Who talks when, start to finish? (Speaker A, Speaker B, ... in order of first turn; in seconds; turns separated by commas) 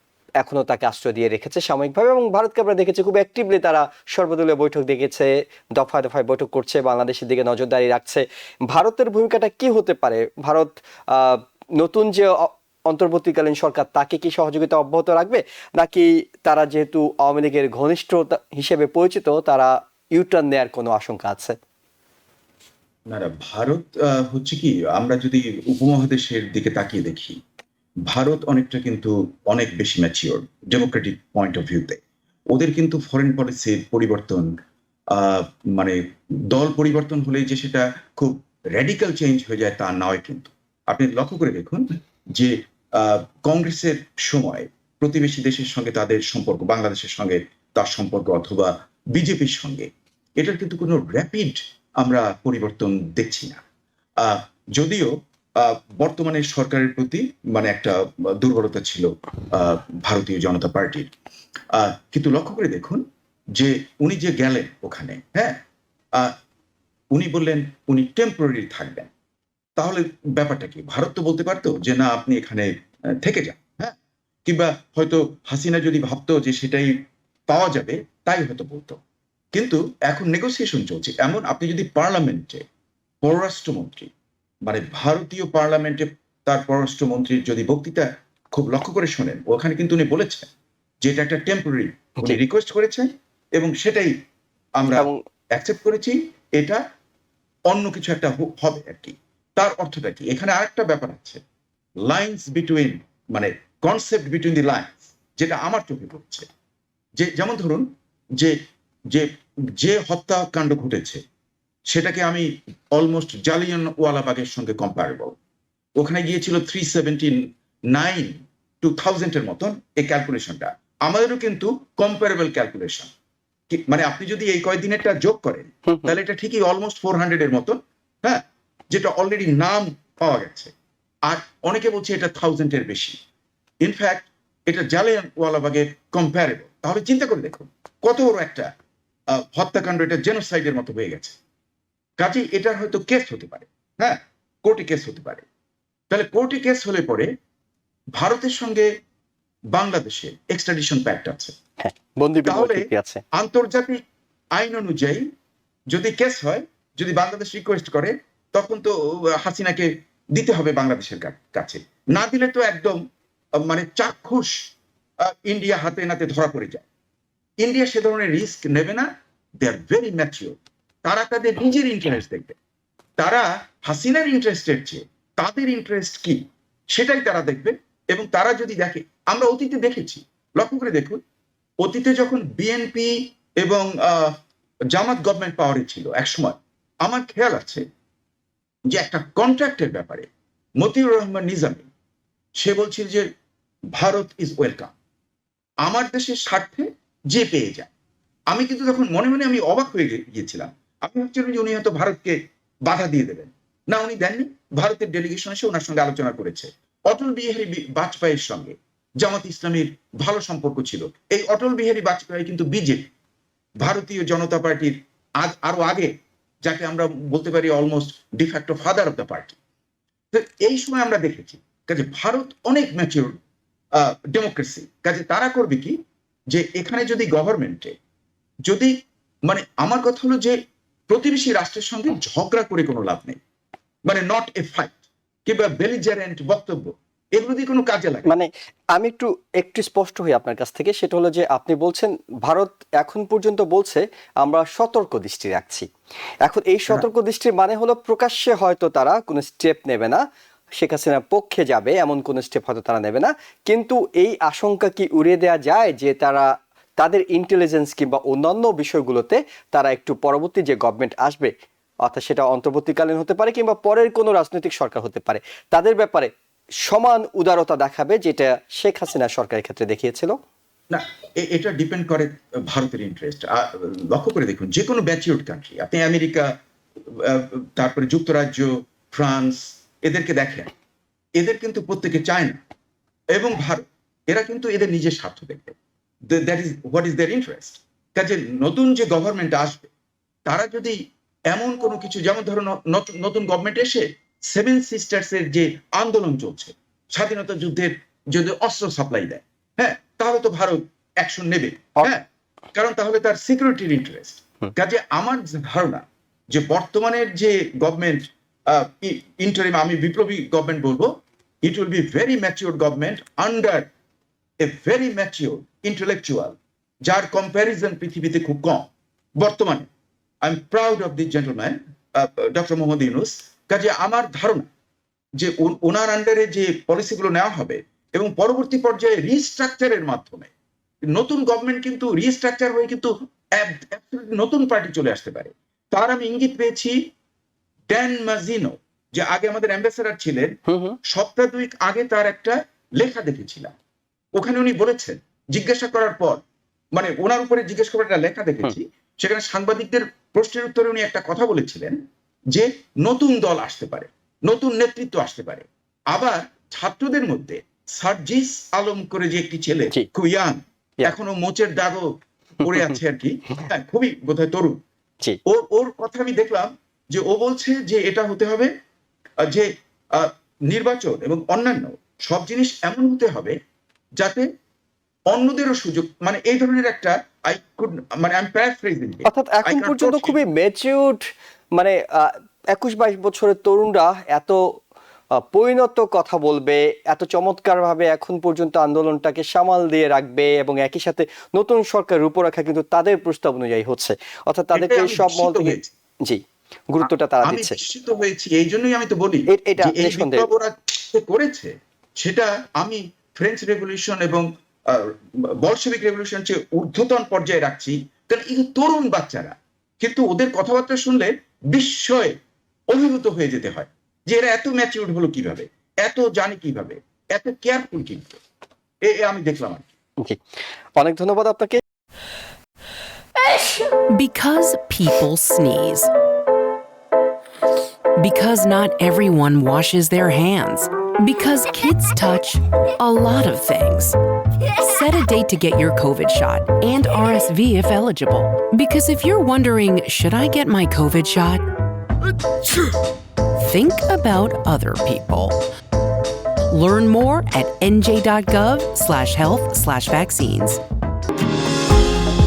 Speaker A: 0.4-21.6, Speaker B: 23.1-27.4, Speaker B: 28.1-32.0, Speaker B: 32.5-34.5, Speaker B: 35.1-36.0, Speaker B: 36.5-49.9, Speaker B: 50.4-53.6, Speaker B: 54.2-61.1, Speaker B: 61.8-63.0, Speaker B: 63.6-65.6, Speaker B: 67.1-69.1, Speaker B: 69.8-76.9, Speaker B: 77.5-79.0, Speaker B: 79.5-82.6, Speaker B: 83.2-84.1, Speaker B: 84.7-90.5, Speaker B: 91.0-94.1, Speaker B: 94.8-96.8, Speaker A: 94.9-95.2, Speaker B: 97.7-101.4, Speaker B: 102.0-106.5, Speaker B: 107.2-108.5, Speaker B: 109.8-111.2, Speaker B: 111.9-115.3, Speaker B: 116.0-117.4, Speaker B: 117.9-123.1, Speaker B: 123.7-130.7, Speaker A: 125.9-126.2, Speaker B: 131.3-133.2, Speaker B: 133.8-138.7, Speaker B: 139.3-141.4, Speaker B: 142.2-145.4, Speaker B: 146.1-147.3, Speaker B: 148.1-148.9, Speaker B: 149.7-151.5, Speaker A: 151.8-153.2, Speaker B: 152.5-152.8, Speaker B: 153.4-154.0, Speaker B: 154.6-155.2, Speaker B: 155.9-163.0, Speaker B: 163.6-164.7, Speaker B: 165.2-166.8, Speaker B: 167.6-169.1, Speaker B: 169.6-172.6, Speaker B: 173.2-181.2, Speaker B: 181.8-184.3, Speaker B: 184.9-187.8, Speaker B: 188.9-190.3, Speaker B: 190.8-191.9, Speaker B: 192.6-193.3, Speaker B: 193.9-194.9, Speaker B: 195.8-197.9, Speaker B: 198.5-202.4, Speaker B: 202.9-213.0, Speaker B: 213.8-216.1, Speaker B: 216.6-219.6, Speaker B: 220.3-223.4, Speaker B: 224.0-226.0, Speaker B: 226.5-227.9, Speaker B: 228.7-228.9, Speaker B: 229.5-230.5, Speaker B: 231.1-233.4, Speaker B: 234.1-238.3, Speaker A: 238.3-245.9, Speaker A: 246.4-250.2, Speaker A: 250.8-256.5, Speaker A: 257.0-261.5, Speaker A: 262.1-266.3, Speaker A: 266.9-270.4, Speaker B: 270.9-276.5, Speaker B: 277.2-280.7, Speaker B: 281.4-282.6, Speaker B: 283.4-285.8, Speaker B: 286.3-289.9, Speaker B: 290.5-291.0, Speaker B: 291.5-311.1, Speaker B: 311.6-313.9, Speaker B: 314.6-318.9, Speaker B: 319.4-319.9, Speaker B: 320.4-324.7, Speaker B: 325.4-330.5, Speaker B: 331.1-337.0, Speaker B: 337.9-340.5, Speaker A: 340.7-341.0, Speaker B: 341.1-343.7, Speaker B: 344.4-346.4, Speaker B: 346.9-352.0, Speaker B: 352.5-362.0, Speaker B: 362.6-364.8, Speaker B: 365.5-368.7, Speaker B: 369.4-373.6, Speaker B: 374.2-374.5, Speaker B: 375.3-380.4, Speaker A: 379.3-381.2, Speaker A: 381.8-384.6, Speaker A: 385.5-395.8, Speaker B: 394.7-395.9, Speaker A: 396.3-397.7, Speaker B: 397.1-405.1, Speaker A: 399.5-400.5, Speaker B: 405.6-412.4, Speaker B: 412.9-418.4, Speaker B: 419.1-419.9, Speaker A: 421.0-421.8, Speaker C: 424.1-426.1, Speaker C: 428.2-434.2, Speaker C: 434.8-441.6, Speaker C: 443.6-445.6, Speaker C: 446.7-450.8